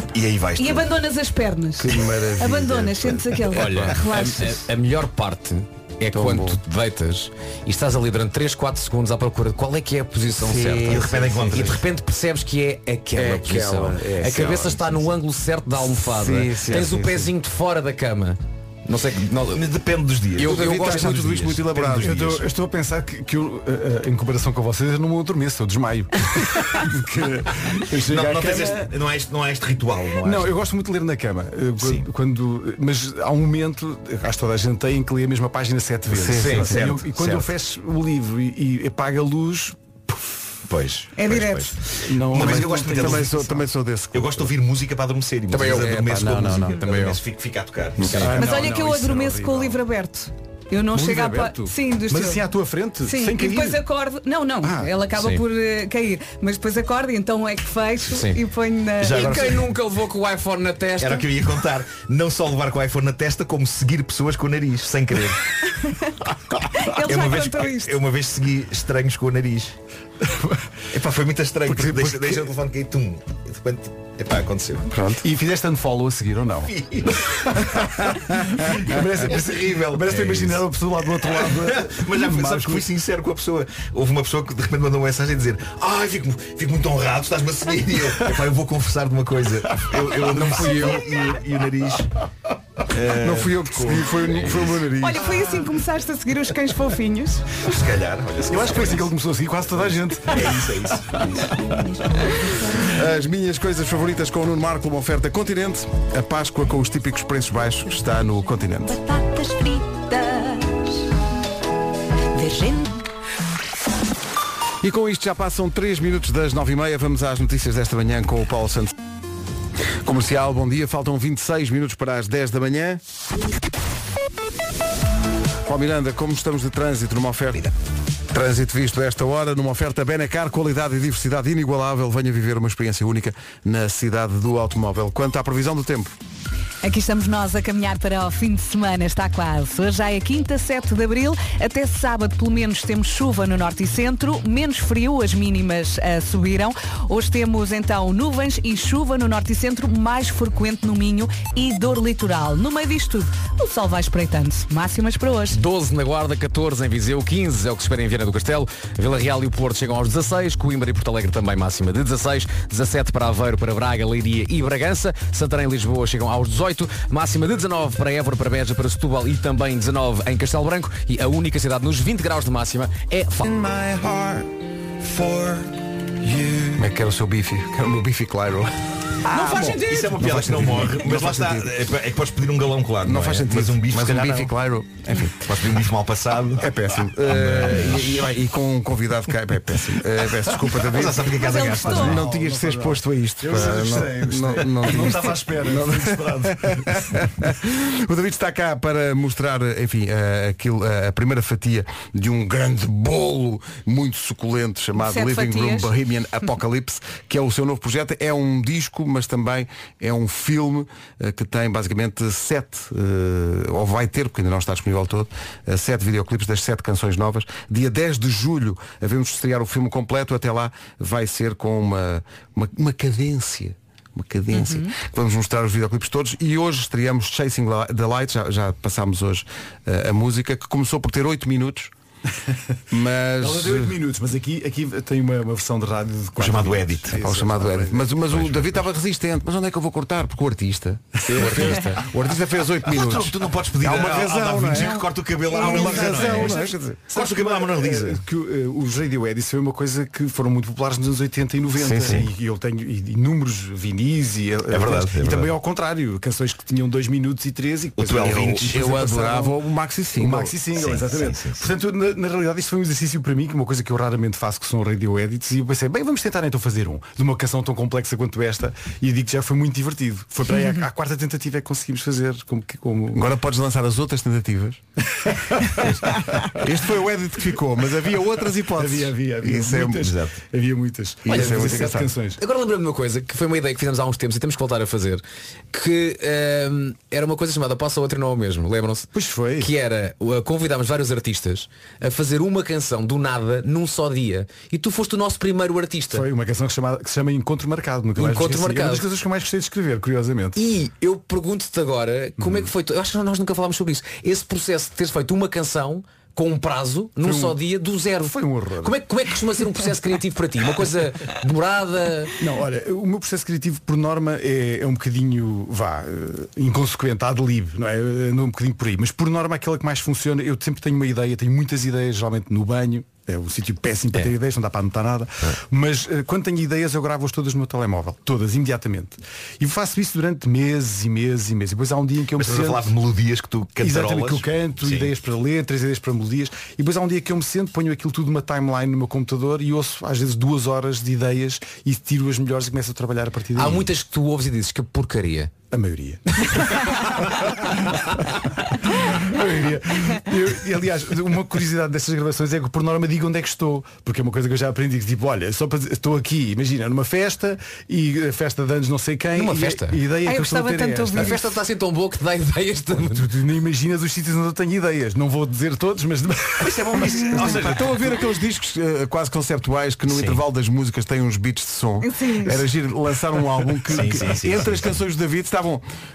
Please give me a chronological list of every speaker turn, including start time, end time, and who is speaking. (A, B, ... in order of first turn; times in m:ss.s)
0:00.1-0:00.9 A
0:00.6-0:04.6 B
0:01.8-0:04.0 C
0:03.5-0:19.7 D
0:06.1-0:06.6 C
0:10.4-0:11.8 C
0:10.8-0:11.8 A
0:13.1-0:15.1 C
0:15.9-0:17.3 C
0:19.5-0:22.5 A
0:20.3-0:21.3 D
0:20.4-0:22.2 C
0:22.0-0:28.9 E
0:27.9-0:30.5 A
0:30.2-0:40.4 E
0:31.8-0:32.1 A
0:36.1-0:36.8 C
0:36.4-0:36.7 D
0:36.4-0:37.5 A
0:40.7-0:43.6 A
0:41.2-0:41.8 B
0:42.0-0:43.5 E
0:42.4-0:44.5 C
0:44.1-0:48.3 A
0:45.5-0:46.0 D
0:45.7-0:46.8 C
0:46.6-0:47.2 D
0:48.0-0:48.3 C
0:48.0-0:48.3 D
0:48.2-0:49.8 E
0:48.3-0:52.4 B
0:50.9-0:53.8 E
0:53.0-0:59.4 B
0:54.6-0:54.9 E
0:55.2-0:55.4 D
0:58.1-0:58.4 D
0:59.0-0:59.6 A
0:59.0-1:01.3 D
1:01.0-1:05.4 A
1:05.8-1:06.0 B
1:06.7-1:08.0 B
1:06.8-1:09.7 A
1:10.2-1:10.6 E
1:10.9-1:14.9 A
1:11.7-1:12.5 E
1:14.9-1:15.2 C
1:15.2-1:16.7 E
1:16.6-1:17.8 A
1:17.5-1:22.9 E
1:18.7-1:32.1 A
1:30.5-1:31.0 D
1:32.9-1:34.8 A
1:33.2-1:35.3 C
1:35.0-1:37.6 B
1:37.6-1:39.1 A
1:38.4-1:40.7 E
1:39.7-1:41.6 A
1:41.7-1:42.8 F
1:42.8-1:49.0 C
1:48.9-1:51.0 F
1:52.3-1:53.0 F
1:54.8-1:58.9 C
2:00.0-2:03.0 C
2:05.6-2:07.7 C
2:08.3-2:16.1 C
2:16.8-2:35.6 B
2:35.5-2:53.5 D
2:53.5-2:58.7 C
2:59.3-3:04.5 A
2:59.3-3:01.8 C
2:59.3-3:00.2 D
3:03.0-3:05.6 C
3:05.3-3:06.7 A
3:06.6-3:11.3 C
3:07.2-3:08.2 A
3:10.5-3:12.3 A
3:11.3-3:12.2 B
3:11.9-3:17.0 E
3:11.9-3:51.9 C
3:25.0-3:25.9 B
3:44.5-3:44.9 B
3:52.9-3:53.9 C
3:53.4-3:58.1 E
3:56.4-3:57.2 A
3:57.1-4:07.1 C
3:58.3-3:58.7 A
4:01.3-4:02.0 D
4:02.8-4:08.2 A
4:05.5-4:19.6 E
4:11.8-4:12.3 C
4:14.7-4:15.5 A
4:18.0-4:19.0 A
4:18.2-4:20.5 C
4:20.2-4:33.3 E
4:20.7-4:21.7 A
4:33.1-4:34.8 C
4:35.1-4:36.7 E
4:36.5-4:40.1 C
4:38.7-4:42.4 E
4:40.0-4:40.4 A
4:41.2-4:42.1 C
4:41.3-4:41.8 D
4:42.4-4:56.3 D
4:49.1-4:49.7 E
4:56.1-5:00.6 E
4:58.2-4:59.0 D
5:00.6-5:12.4 D
5:02.4-5:02.7 E
5:07.2-5:07.6 E
5:08.2-5:09.0 E
5:12.4-5:32.9 E
5:32.4-5:35.1 A
5:33.8-5:43.9 E
5:43.5-5:45.5 D
5:45.7-6:01.6 E
5:59.4-6:00.0 D
6:00.2-6:01.4 B
6:01.1-6:03.3 D
6:03.0-6:07.6 E
6:06.6-6:08.1 A
6:07.3-6:15.8 C
6:10.1-6:10.4 A
6:12.0-6:12.6 B
6:13.8-6:14.9 A